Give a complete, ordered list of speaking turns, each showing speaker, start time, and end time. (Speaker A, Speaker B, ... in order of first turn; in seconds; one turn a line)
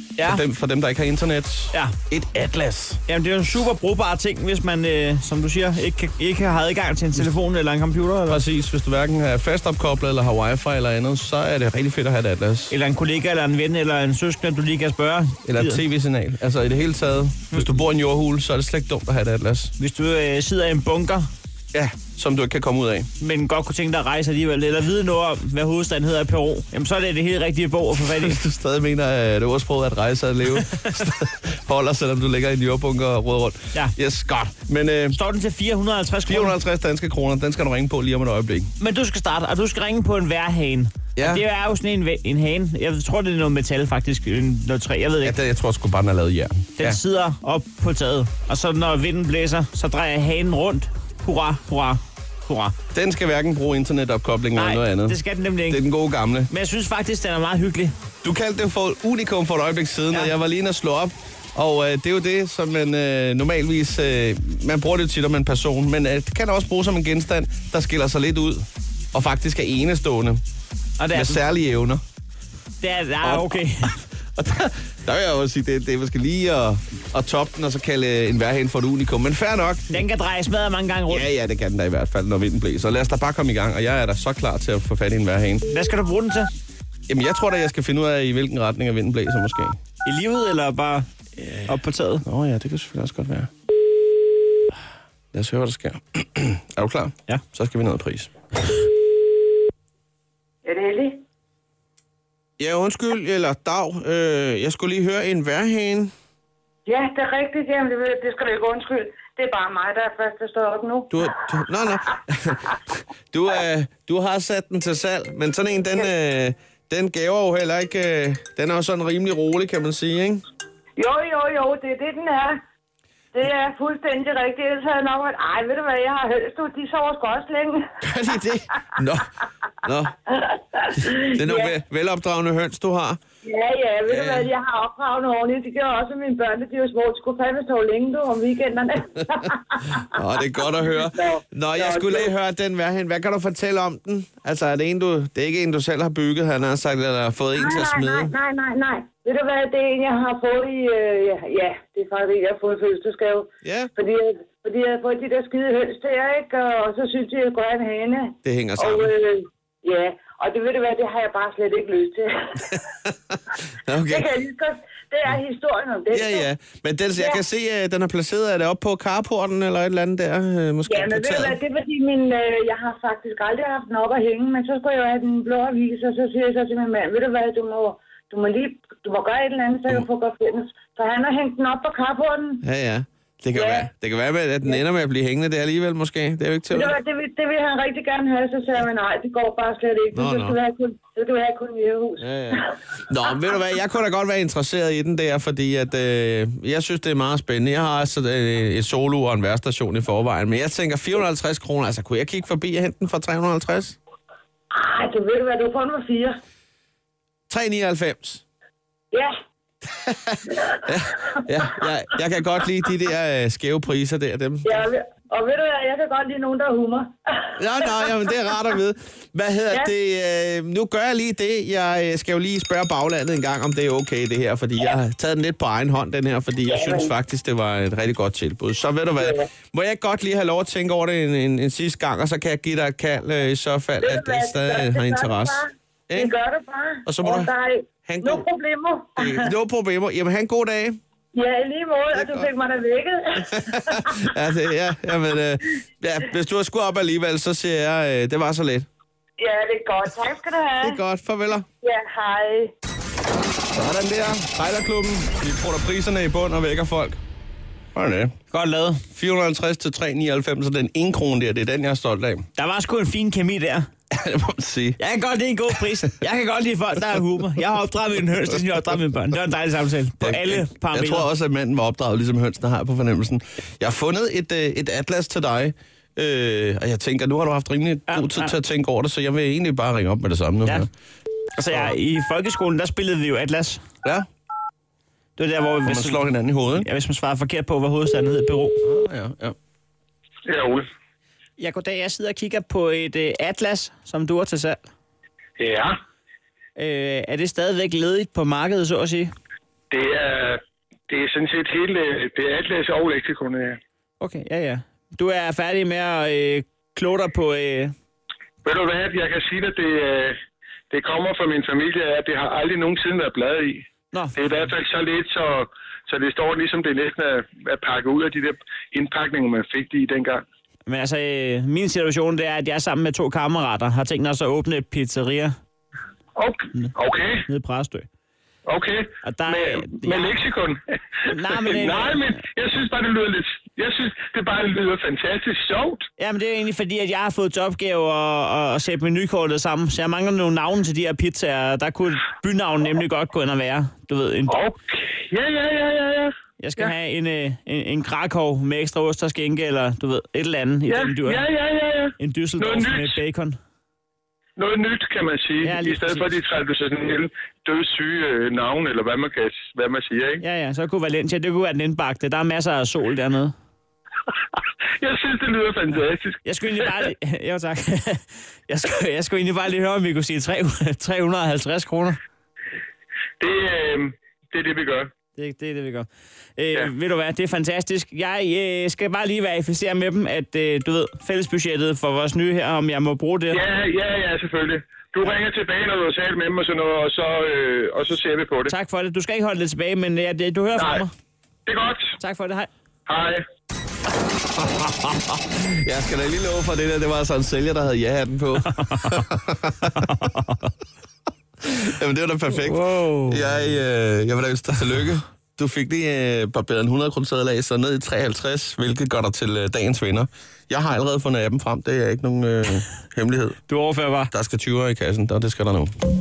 Speaker A: 0.2-0.4
Speaker B: 0.2-3.0
Speaker A: 3.1-8.4
Speaker B: 8.3-12.8
Speaker A: 12.7-15.8
Speaker B: 15.5-19.7
Speaker A: 17.5-17.8
Speaker A: 19.8-21.3
Speaker B: 21.7-23.1
Speaker A: 23.2-28.4
Speaker B: 28.1-35.2
Speaker A: 30.6-30.8
Speaker A: 35.1-36.6
Speaker B: 36.3-38.7
Speaker A: 38.8-45.4
Speaker B: 41.2-41.4
Speaker B: 45.2-47.0
Speaker A: 46.8-52.7
Speaker B: 52.9-55.2
Speaker A: 54.6-55.8
Speaker B: 55.7-56.5
Speaker A: 56.5-57.9
Speaker B: 58.2-70.4
Speaker A: 71.0-71.4
Speaker B: 71.1-72.0
Speaker A: 72.8-74.0
Speaker B: 73.2-73.5
Speaker B: 74.3-80.0
Speaker A: 79.9-81.3
Speaker B: 81.1-85.7
Speaker A: 85.7-86.5
Speaker B: 87.1-89.8
Speaker A: 90.0-91.1
Speaker B: 91.4-91.7
Speaker A: 91.7-92.2
Speaker B: 92.2-93.5
Speaker B: 95.3-98.3
Speaker C: 100.7-101.2
Speaker B: 102.6-106.1
Speaker C: 106.9-111.2
Speaker B: 111.1-112.7
Speaker B: 113.3-120.4
Speaker C: 121.0-122.6
Speaker C: 123.3-127.8
Speaker B: 128.0-129.3
Speaker B: 129.8-130.1
Speaker C: 130.3-131.7
Speaker B: 131.0-133.2
Speaker C: 133.4-140.2
Speaker B: 134.1-134.5
Speaker B: 140.1-148.3
Speaker C: 140.9-142.3
Speaker C: 147.6-162.8
Speaker B: 153.6-153.9
Speaker B: 158.4-159.1
Speaker B: 163.8-164.3
Speaker C: 164.1-166.5
Speaker B: 166.1-171.6
Speaker C: 170.9-182.6
Speaker B: 182.6-186.9
Speaker C: 183.6-183.9
Speaker C: 186.7-192.8
Speaker B: 190.1-190.6
Speaker B: 192.2-204.0
Speaker C: 204.7-206.3
Speaker B: 207.5-208.4
Speaker B: 209.9-214.9
Speaker C: 211.3-211.7
Speaker C: 214.6-218.4
Speaker B: 217.6-236.3
Speaker C: 226.7-227.1
Speaker C: 229.2-229.5
Speaker C: 234.0-239.5
Speaker B: 237.1-237.5
Speaker B: 238.1-238.4
Speaker B: 239.2-241.0
Speaker C: 241.3-244.2
Speaker B: 242.2-242.5
Speaker B: 243.5-248.9
Speaker C: 249.4-251.0
Speaker B: 250.8-251.7
Speaker C: 251.8-252.7
Speaker B: 253.7-257.2
Speaker B: 257.9-258.3
Speaker A: 258.5-259.0
Speaker B: 259.1-262.5
Speaker A: 262.6-263.9
Speaker B: 264.1-265.0
Speaker A: 265.0-271.3
Speaker B: 270.2-280.9
Speaker A: 278.1-278.6
Speaker A: 281.6-283.8
Speaker A: 285.4-288.8
Speaker B: 285.9-286.9
Speaker B: 288.8-289.6
Speaker D: 290.5-290.9
Speaker A: 291.6-294.9
Speaker D: 295.6-295.9
Speaker A: 296.8-299.3
Speaker D: 299.9-303.8
Speaker A: 304.2-307.9
Speaker D: 308.6-310.4
Speaker D: 310.9-320.4
Speaker A: 320.9-325.6
Speaker D: 326.4-327.5
Speaker A: 327.5-328.1
Speaker D: 328.7-336.0
Speaker A: 329.2-330.3
Speaker A: 331.3-332.2
Speaker A: 336.2-344.5
Speaker D: 344.5-346.9
Speaker A: 346.6-351.4
Speaker D: 350.9-353.2
Speaker A: 352.2-353.6
Speaker D: 354.6-360.4
Speaker A: 355.6-356.3
Speaker A: 360.4-363.6
Speaker D: 365.0-366.4
Speaker A: 366.4-372.2
Speaker D: 373.4-375.1
Speaker A: 375.4-383.6
Speaker D: 383.5-388.7
Speaker A: 388.7-391.1
Speaker D: 390.8-391.0
Speaker D: 391.7-392.1
Speaker A: 392.2-392.7
Speaker D: 393.1-393.4
Speaker B: 394.6-400.1
Speaker A: 400.0-400.5
Speaker B: 401.6-413.6
Speaker A: 402.5-403.5
Speaker A: 413.7-414.3
Speaker B: 414.3-415.9